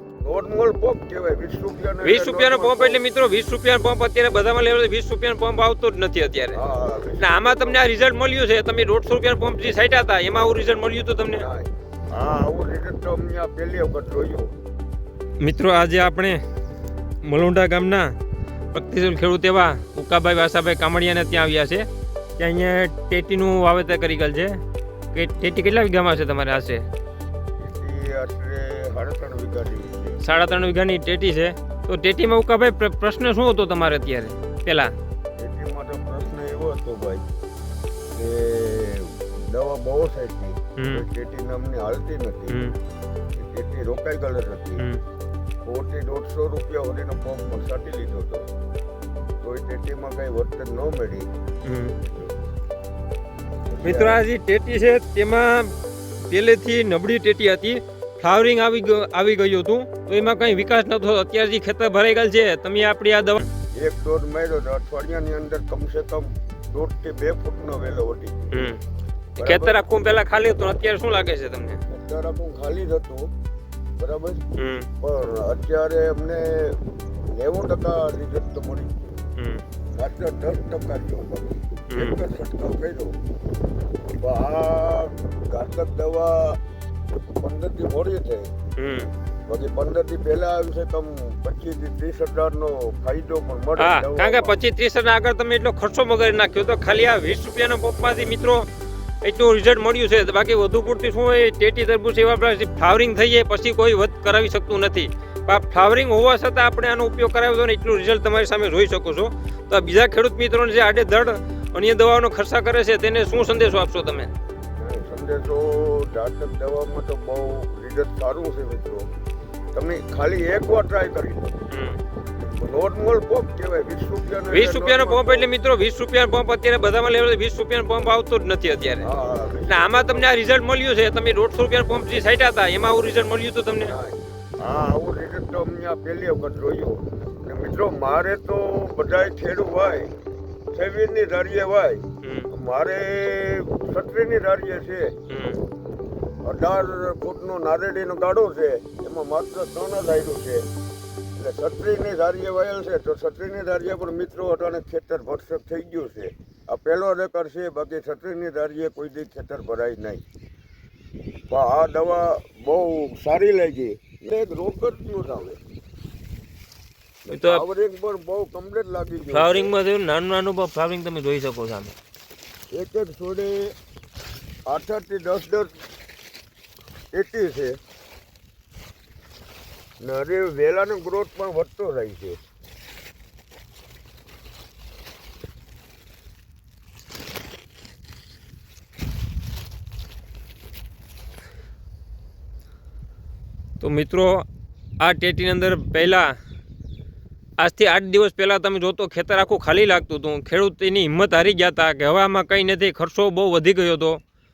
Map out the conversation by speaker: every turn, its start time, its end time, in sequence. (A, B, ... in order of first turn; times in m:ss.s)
0:00.2-0:03.0 A
0:02.0-0:06.6 B
0:06.5-0:07.9 A
0:07.2-0:11.5 B
0:11.3-0:14.6 A
0:15.4-0:16.4 B
0:17.2-0:18.2 B
0:18.7-0:21.9 B
0:22.4-0:24.6 B
0:25.1-0:26.9 B
0:27.6-0:30.2 A
0:30.2-0:34.9 B
0:35.4-0:37.3 A
0:38.2-0:42.6 A
0:40.8-0:41.0 B
0:42.5-0:42.8 B
0:43.4-0:44.9 A
0:45.6-0:48.5 A
0:49.4-0:51.3 A
0:51.6-0:52.0 B
0:52.0-0:52.3 A
0:53.7-0:54.2 A
0:53.8-0:55.8 B
0:56.3-1:03.5 B
1:03.7-1:08.6 A
1:08.5-1:08.8 B
1:09.4-1:11.8 B
1:09.4-1:09.8 A
1:11.9-1:13.3 A
1:14.0-1:14.4 A
1:14.6-1:14.9 B
1:15.0-1:19.2 A
1:19.4-1:19.6 B
1:20.0-1:23.2 A
1:21.9-1:22.2 B
1:24.1-1:26.6 A
1:27.4-1:28.5 A
1:28.8-1:29.1 B
1:29.5-1:34.6 A
1:33.8-1:38.7 B
1:39.2-1:54.3 B
1:54.8-1:59.1 A
1:59.7-2:01.7 A
2:01.7-2:02.0 B
2:02.4-2:05.5 A
2:04.5-2:09.1 B
2:09.0-2:10.3 A
2:09.7-2:14.0 B
2:13.8-2:20.1 A
2:20.7-2:25.2 A
2:22.2-2:22.5 B
2:25.3-2:25.6 B
2:26.4-2:30.6 A
2:31.4-2:40.2 A
2:41.5-2:45.6 A
2:47.3-2:49.7 A
2:47.3-2:47.6 B
2:49.3-2:51.9 B
2:52.7-2:53.8 A
2:54.7-2:55.7 A
2:57.1-2:57.8 A
3:00.0-3:02.4 A
3:13.8-3:14.5 B
3:15.0-3:16.4 B
3:17.6-3:24.2 B